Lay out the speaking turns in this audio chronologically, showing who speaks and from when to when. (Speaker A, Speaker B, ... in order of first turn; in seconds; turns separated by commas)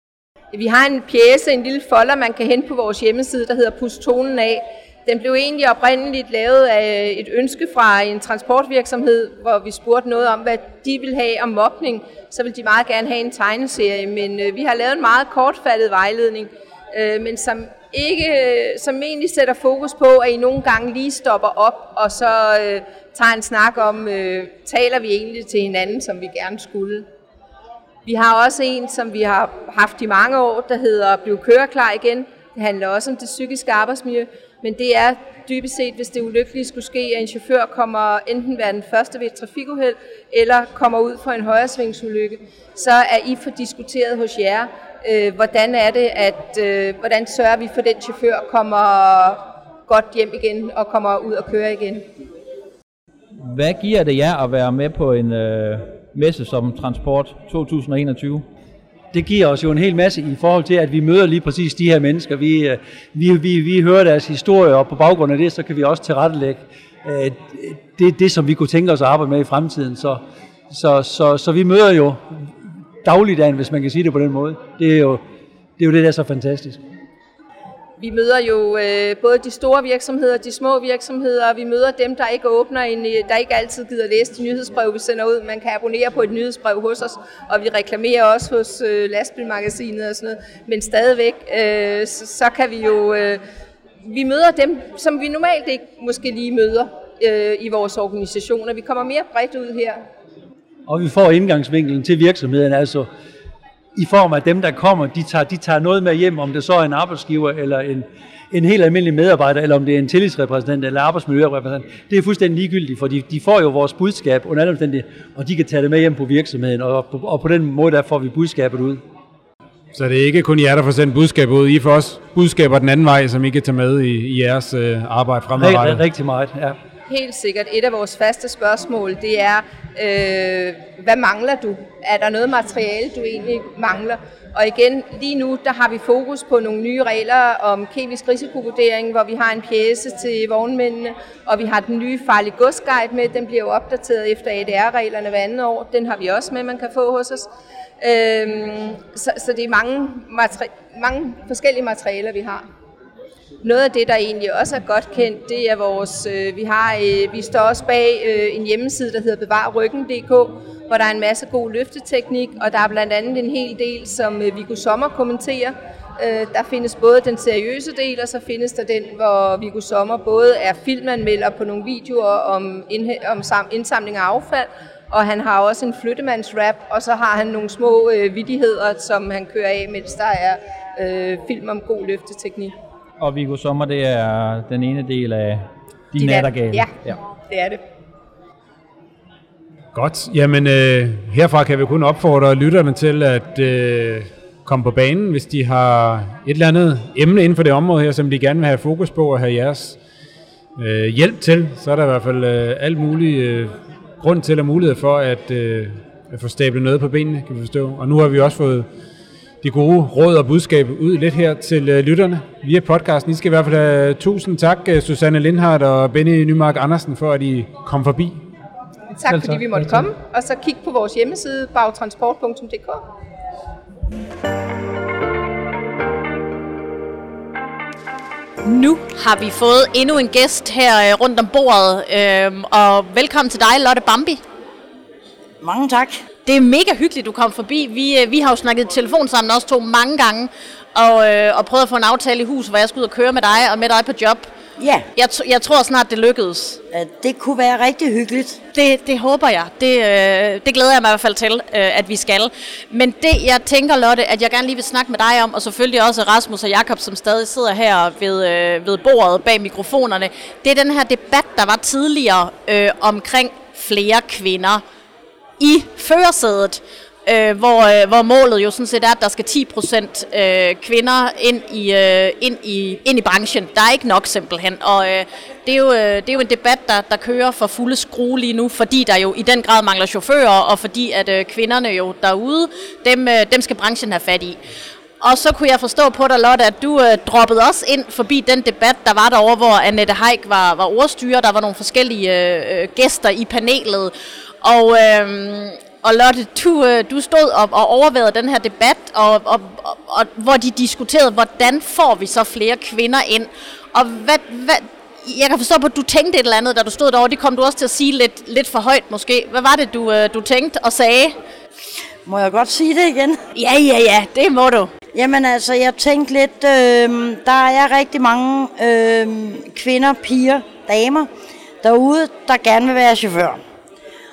Speaker A: 0.5-27.1, Speaker A: 28.1-52.1, Speaker B: 53.4-58.4, Speaker C: 59.1-72.5, Speaker C: 73.0-75.2, Speaker C: 75.8-76.8, Speaker A: 78.0-93.4, Speaker A: 94.0-100.0, Speaker C: 100.9-103.1, Speaker C: 104.0-119.0, Speaker D: 119.9-126.0, Speaker C: 125.6-126.8, Speaker A: 127.1-147.5, Speaker A: 148.0-152.6, Speaker A: 153.6-182.7, Speaker B: 183.2-187.2, Speaker A: 186.2-186.9, Speaker A: 187.5-187.8, Speaker D: 189.9-200.0, Speaker D: 200.8-208.9, Speaker D: 209.6-218.4, Speaker A: 219.1-223.0, Speaker C: 219.3-220.0, Speaker E: 228.6-234.4, Speaker F: 235.6-236.2, Speaker E: 236.4-244.5, Speaker F: 244.8-245.1, Speaker E: 245.2-246.8, Speaker F: 246.9-248.6, Speaker E: 248.7-264.8, Speaker E: 265.6-284.6, Speaker E: 285.2-311.4, Speaker F: 312.2-313.4, Speaker E: 313.6-314.9, Speaker F: 315.1-321.3, Speaker F: 321.8-323.6